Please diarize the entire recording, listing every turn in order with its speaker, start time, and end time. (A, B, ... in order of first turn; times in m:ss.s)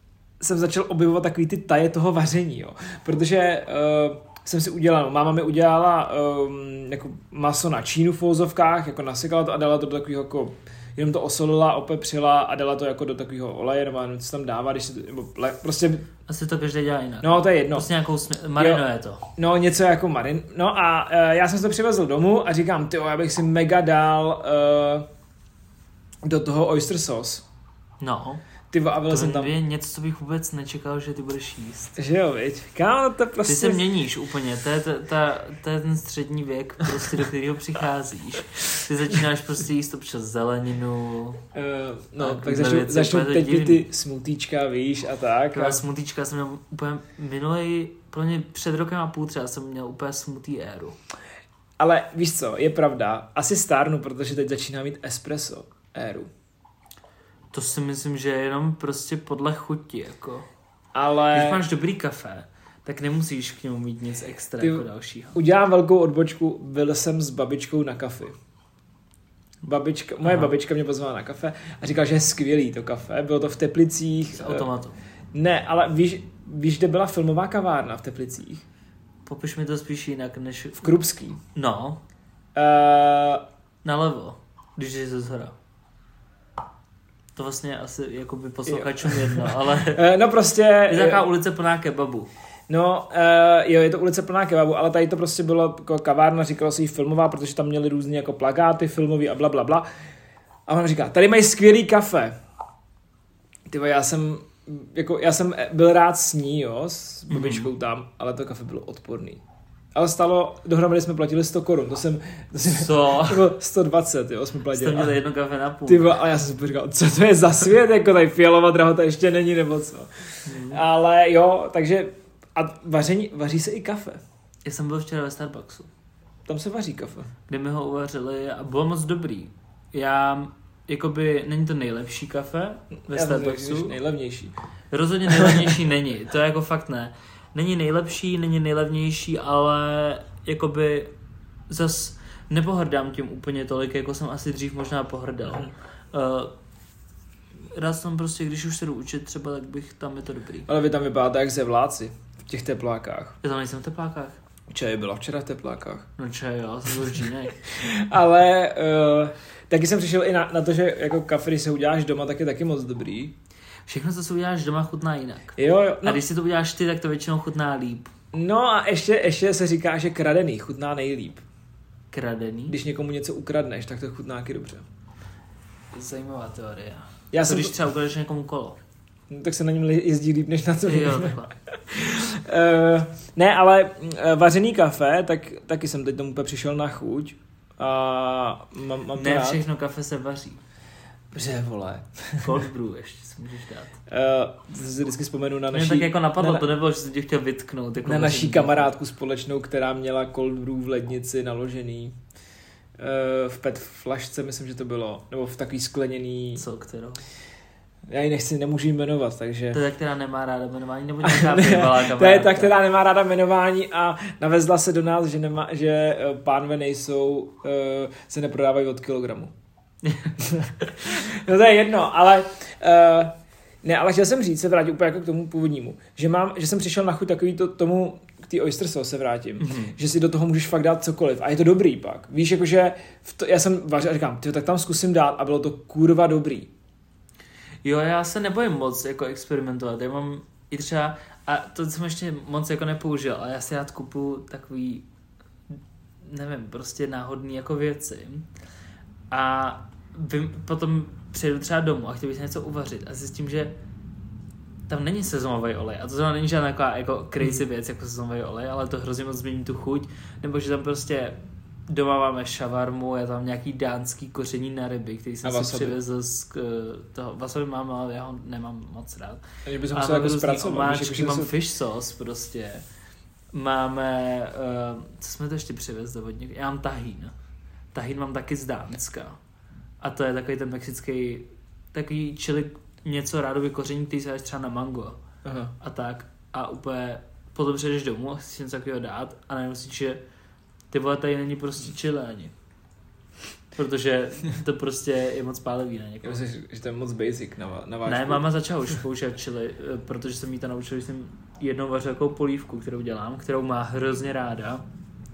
0:00.4-0:16.1 A
0:16.3-0:19.3 B
0:17.2-0:17.9 A
0:18.6-0:18.8 A
0:19.4-0:25.1 A
0:26.2-0:27.4 A
0:28.0-0:28.4 B
0:28.7-0:29.5 A
0:29.1-0:31.9 B
0:32.0-0:33.8 A
0:33.4-0:41.4 B
0:41.5-0:45.8 A
0:42.2-0:43.9 B
0:45.5-0:51.0 B
0:51.8-0:56.3 A
0:57.5-1:00.5 B
1:00.9-1:01.6 A
1:01.3-1:05.4 B
1:04.6-1:08.3 A
1:09.6-1:14.7 A
1:10.2-1:10.5 B
1:14.3-1:14.9 B
1:15.3-1:18.6 A
1:19.2-1:20.9 B
1:20.8-1:21.4 A
1:21.5-1:22.0 B
1:22.5-1:23.4 A
1:23.8-1:25.5 B
1:27.3-1:30.0 B
1:28.7-1:31.3 A
1:30.9-1:32.3 B
1:32.7-1:39.8 A
1:40.7-1:42.3 A
1:43.7-1:49.4 A
1:47.3-1:47.7 B
1:49.9-1:55.1 A
1:52.7-1:53.5 B
1:54.7-1:56.1 B
1:55.9-2:04.2 A
2:00.4-2:00.8 B
2:04.6-2:05.9 B
2:06.4-2:07.3 A
2:07.5-2:13.9 B
2:13.0-2:14.5 A
2:14.9-2:21.1 B
2:15.3-2:15.8 A
2:21.7-2:26.5 B
2:27.7-2:30.7 B
2:30.7-2:33.4 A
2:33.4-2:34.4 B
2:34.7-2:36.1 A
2:36.2-2:37.7 B
2:37.7-2:43.3 A
2:43.9-2:48.1 B
2:45.6-2:46.2 A
2:48.3-2:51.4 A
2:52.1-2:52.8 B
2:52.7-2:54.8 A
2:55.9-2:58.8 B
2:57.3-2:57.7 A
2:59.3-3:09.6 A
3:00.8-3:01.5 B
3:09.2-3:10.6 B
3:11.3-3:12.6 A
3:12.4-3:14.0 B
3:14.1-3:16.6 A
3:15.7-3:18.9 B
3:18.0-3:22.2 A
3:23.0-3:26.6 A
3:26.6-3:27.2 B
3:28.1-3:29.8 A
3:29.7-3:32.8 B
3:31.2-3:39.5 A
3:40.0-3:40.3 B
3:40.4-3:56.7 A
3:49.6-3:50.0 B
3:57.8-4:05.0 B
4:06.2-4:08.5 B
4:09.3-4:13.7 B
4:14.9-4:21.4 B
4:21.9-4:32.8 B
4:25.4-4:26.0 A
4:29.6-4:31.5 A
4:33.5-4:37.3 B
4:37.9-4:39.4 B
4:40.0-4:45.2 B
4:45.4-4:45.7 A
4:45.8-4:50.2 B
4:50.9-4:52.5 B
4:53.7-4:56.4 B
4:56.2-4:58.5 A
4:58.0-5:04.8 B